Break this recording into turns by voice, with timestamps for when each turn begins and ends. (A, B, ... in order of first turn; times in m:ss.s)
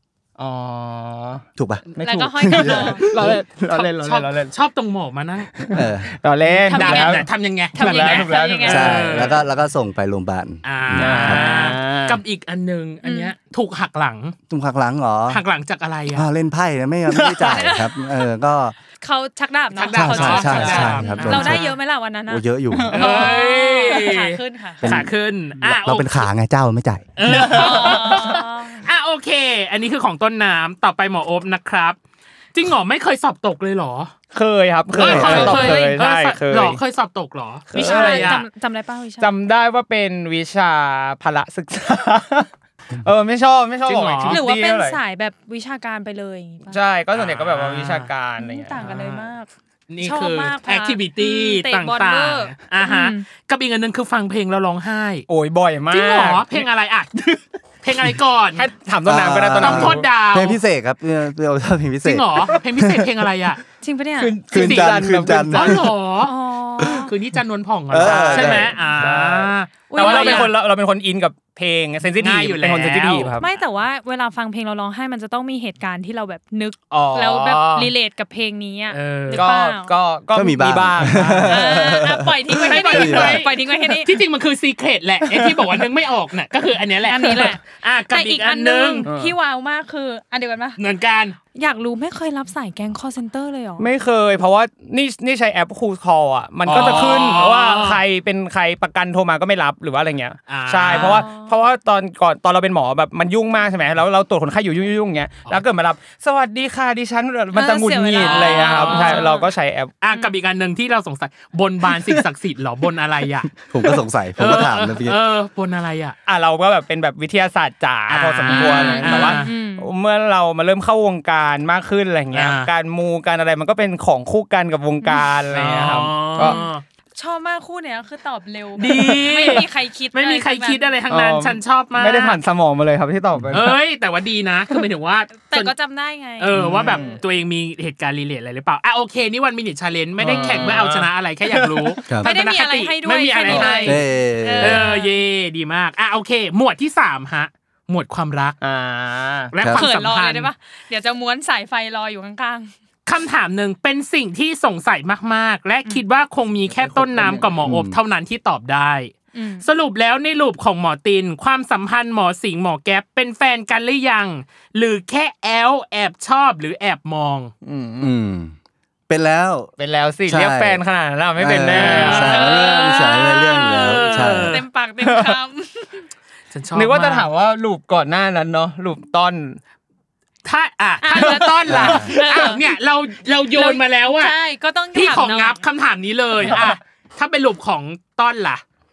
0:00.4-0:01.4 A
0:01.6-0:03.4 B
0:02.0-0:04.5 A
0:02.0-0:03.1 C
0:03.7-0:05.7 D
0:05.6-0:09.1 A
0:05.7-0:06.1 B
0:06.6-0:09.0 C
0:06.7-0:09.4 D
0:08.7-0:11.4 B
0:10.6-0:14.4 D
0:10.9-0:12.2 A
0:13.0-0:13.3 C
0:14.5-0:15.4 B
0:15.3-0:16.3 D
0:16.1-0:18.8 B
0:17.1-0:17.5 A
0:17.4-0:18.2 C
0:19.0-0:25.0 C
0:19.7-0:21.7 D
0:19.9-0:21.7 B
0:20.6-0:20.9 A
0:22.3-0:23.1 B
0:22.8-0:23.1 A
0:22.9-0:26.3 D
0:24.8-0:27.5 B
0:27.2-0:32.0 D
0:27.2-0:28.0 A
0:27.5-0:28.9 C
0:32.5-0:34.1 D
0:34.3-0:36.8 A
0:35.0-0:38.4 D
0:35.0-0:35.7 B
0:35.3-0:36.0 C
0:37.7-0:38.4 A
0:37.7-0:39.3 C
0:39.2-0:42.5 A
0:43.0-0:45.0 A
0:43.9-0:44.4 D
0:44.3-0:46.8 C
0:46.7-0:48.9 A
0:47.1-0:48.1 D
0:48.4-0:49.5 C
0:48.8-0:49.3 D
0:49.9-0:55.3 D
0:50.0-0:53.3 C
0:55.3-0:56.7 A
0:55.9-0:57.2 D
0:57.8-0:58.7 D
0:58.6-1:00.1 A
0:59.1-1:03.1 B
0:59.6-1:00.6 D
1:02.0-1:03.6 D
1:03.8-1:04.4 C
1:04.2-1:05.8 A
1:04.5-1:05.9 B
1:04.5-1:10.5 D
1:06.2-1:07.1 C
1:07.9-1:08.8 B
1:08.0-1:13.5 A
1:09.9-1:10.6 C
1:12.2-1:13.4 D
1:13.4-1:20.0 C
1:16.9-1:17.9 A
1:18.9-1:19.4 D
1:19.3-1:21.6 A
1:20.3-1:23.4 B
1:21.1-1:21.4 D
1:21.5-1:24.2 C
1:22.6-1:29.1 D
1:27.0-1:30.8 C
1:29.1-1:29.4 A
1:30.8-1:31.4 D
1:31.6-1:33.9 C
1:33.8-1:49.9 A
1:36.7-1:38.0 D
1:40.5-1:41.2 D
1:40.9-1:41.6 C
1:47.5-1:49.5 C
1:48.2-1:49.3 D
1:50.0-1:53.6 D
1:53.7-1:55.2 B
1:54.4-1:56.2 D
1:56.3-2:06.6 A
1:58.1-1:59.5 D
1:58.5-1:59.9 C
2:02.3-2:02.7 D
2:05.5-2:06.8 D
2:06.4-2:10.9 C
2:08.8-2:12.4 D
2:08.9-2:09.5 A
2:11.1-2:13.8 A
2:13.5-2:15.7 D
2:15.3-2:17.2 C
2:16.4-2:24.0 D
2:16.6-2:16.9 B
2:16.6-2:17.2 A
2:20.2-2:22.0 A
2:20.3-2:20.8 C
2:22.2-2:25.2 C
2:23.8-2:24.9 B
2:24.6-2:28.6 D
2:28.6-2:29.5 A
2:29.5-2:30.5 D
2:29.6-2:29.8 B
2:29.7-2:32.7 C
2:33.1-2:39.1 D
2:36.7-2:37.6 A
2:37.6-2:38.0 B
2:39.3-2:39.7 C
2:39.6-2:47.5 D
2:47.6-2:48.2 A
2:48.0-2:48.5 B
2:49.1-2:49.7 B
2:49.8-2:52.5 A
2:50.3-2:50.8 B
2:51.4-2:54.6 B
2:51.7-2:52.7 D
2:52.1-2:56.1 C
2:53.5-2:54.6 D
2:55.0-2:55.4 A
2:56.5-2:57.3 D
2:56.8-2:59.6 A
3:00.4-3:04.3 D
3:01.0-3:02.7 C
3:01.7-3:02.1 B
3:03.5-3:05.6 C
3:04.9-3:08.6 D